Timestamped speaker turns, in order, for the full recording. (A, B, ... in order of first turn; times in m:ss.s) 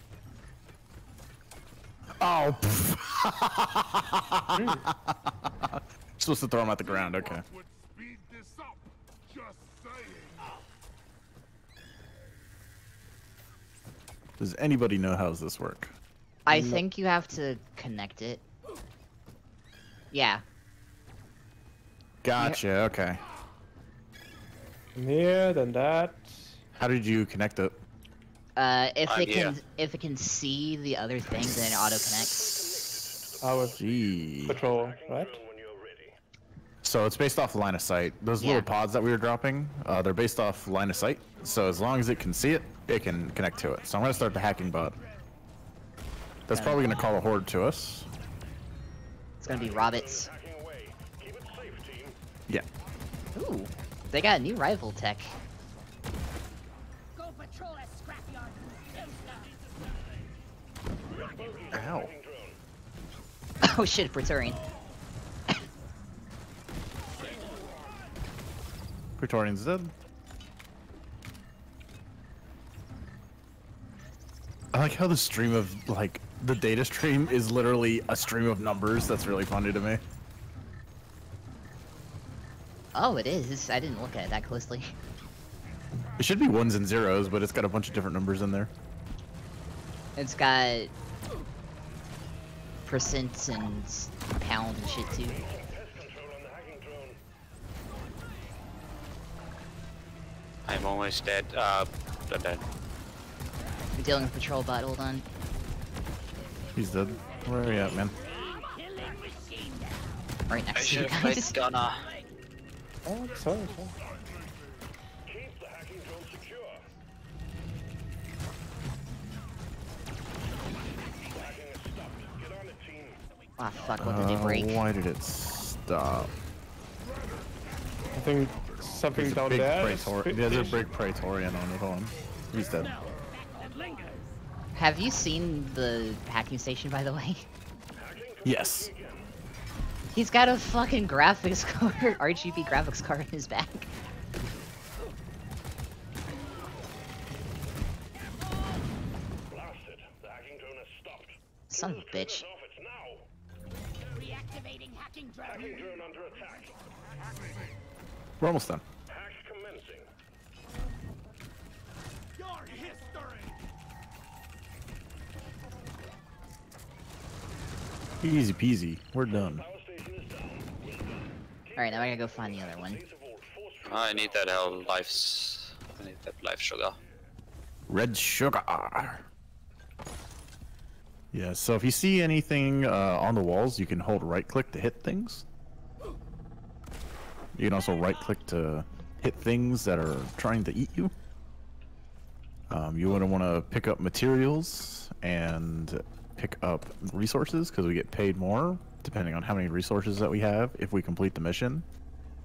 0:02.2-0:07.4 A
0:04.5-0:04.8 B
0:06.8-0:10.5 C
0:14.4-0:15.9 A
0:16.5-0:18.4 D
0:16.5-0:16.8 A
0:20.1-0:20.4 D
0:22.2-0:23.2 A
0:25.0-0:26.6 B
0:26.8-0:27.8 A
0:28.6-0:32.5 D
0:29.0-0:29.6 E
0:32.1-0:36.1 F
0:33.4-0:33.8 B
0:33.8-0:34.6 A
0:34.5-0:35.4 B
0:36.8-0:45.0 A
0:38.4-0:38.7 D
0:40.9-0:42.5 C
0:43.5-0:45.1 C
0:44.2-0:45.0 G
0:46.5-0:48.1 A
0:46.5-0:47.1 D
0:49.4-0:50.3 D
0:49.5-0:52.2 F
0:52.9-0:53.5 C
0:53.4-0:55.4 D
0:57.2-0:59.5 G
0:58.9-0:59.9 C
1:01.1-1:02.6 F
1:01.2-1:01.7 G
1:01.7-1:02.1 A
1:03.6-1:04.6 D
1:07.1-1:08.1 C
1:07.1-1:07.7 G
1:09.2-1:09.9 A
1:14.7-1:20.0 A
1:22.9-1:24.9 D
1:26.0-1:26.8 C
1:26.2-1:28.7 A
1:30.2-1:30.9 D
1:32.9-1:35.5 D
1:35.1-1:37.2 F
1:40.6-1:42.6 E
1:43.9-1:45.2 D
1:46.8-1:48.1 A
1:46.9-1:50.3 G
1:47.2-1:49.4 C
1:50.5-1:51.6 D
1:50.7-1:52.0 E
1:50.9-1:52.3 G
1:53.1-1:54.0 B
1:53.1-1:54.9 C
1:55.3-1:56.8 F
2:00.8-2:01.6 G
2:01.3-2:03.2 F
2:03.5-2:04.3 G
2:03.6-2:04.8 D
2:04.0-2:06.3 A
2:07.0-2:11.4 C
2:08.1-2:10.8 B
2:09.1-2:12.9 A
2:12.1-2:14.3 C
2:12.7-2:14.4 G
2:14.7-2:17.5 D
2:18.0-2:19.3 F
2:18.4-2:18.9 A
2:20.1-2:23.9 D
2:29.5-2:33.3 F
2:31.7-2:32.4 D
2:34.0-2:35.9 G
2:35.4-2:36.8 F
2:36.3-2:37.8 C
2:38.4-2:38.8 A
2:39.1-2:40.1 F
2:42.4-2:43.6 C
2:48.2-2:49.6 A
2:49.3-2:55.1 F
2:51.8-2:53.0 D
2:53.8-2:57.0 E
2:57.9-2:59.3 A
3:01.3-3:05.4 A
3:07.6-3:11.1 A
3:12.7-3:21.9 A